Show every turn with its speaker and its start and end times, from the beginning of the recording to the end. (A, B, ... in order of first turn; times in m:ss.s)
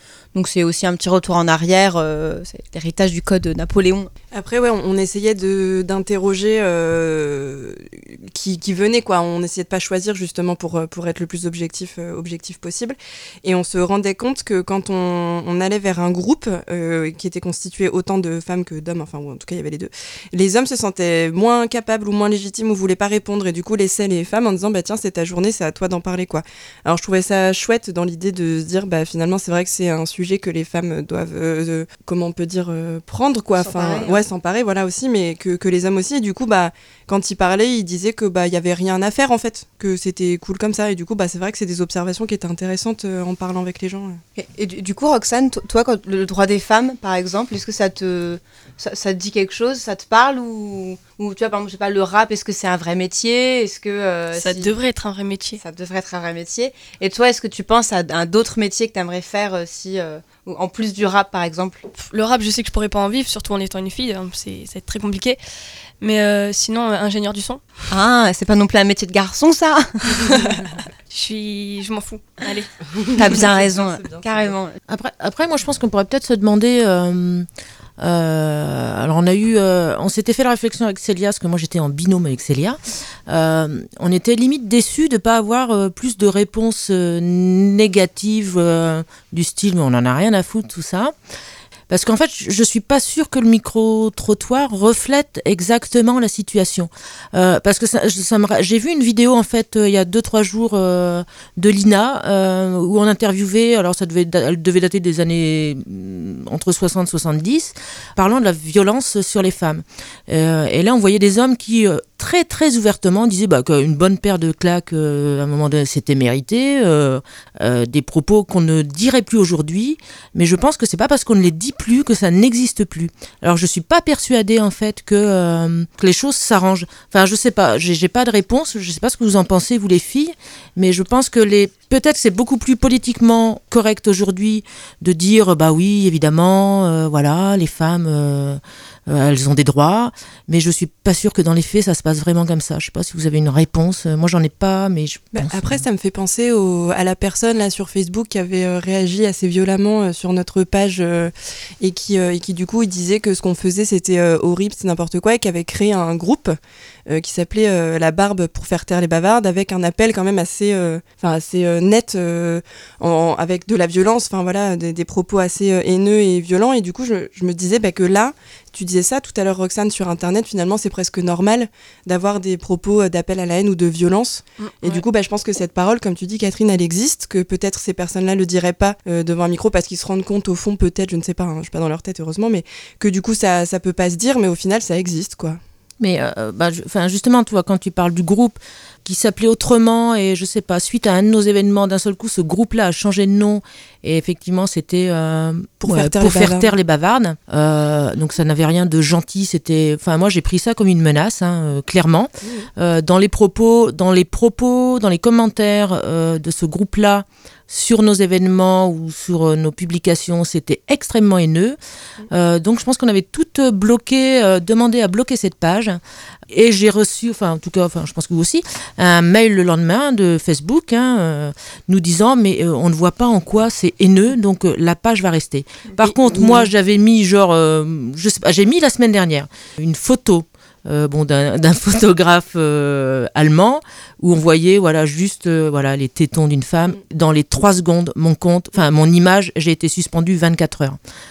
0:00.3-0:04.1 A
0:04.3-0:44.2 B
0:33.6-0:34.2 A
0:44.4-0:54.8 A
0:54.3-0:55.6 C
0:55.6-1:01.8 A
1:02.0-1:05.4 C
1:06.0-1:07.6 C
1:07.9-1:10.4 A
1:10.2-1:13.4 C
1:13.1-1:14.8 A
1:14.9-1:17.5 D
1:18.0-1:31.1 D
1:31.9-2:25.8 D
2:25.3-3:05.6 B
2:54.6-2:55.0 C
3:06.0-3:31.8 D
3:15.8-3:16.7 B
3:32.3-3:36.0 D
3:36.5-4:01.0 D
3:46.1-3:46.7 B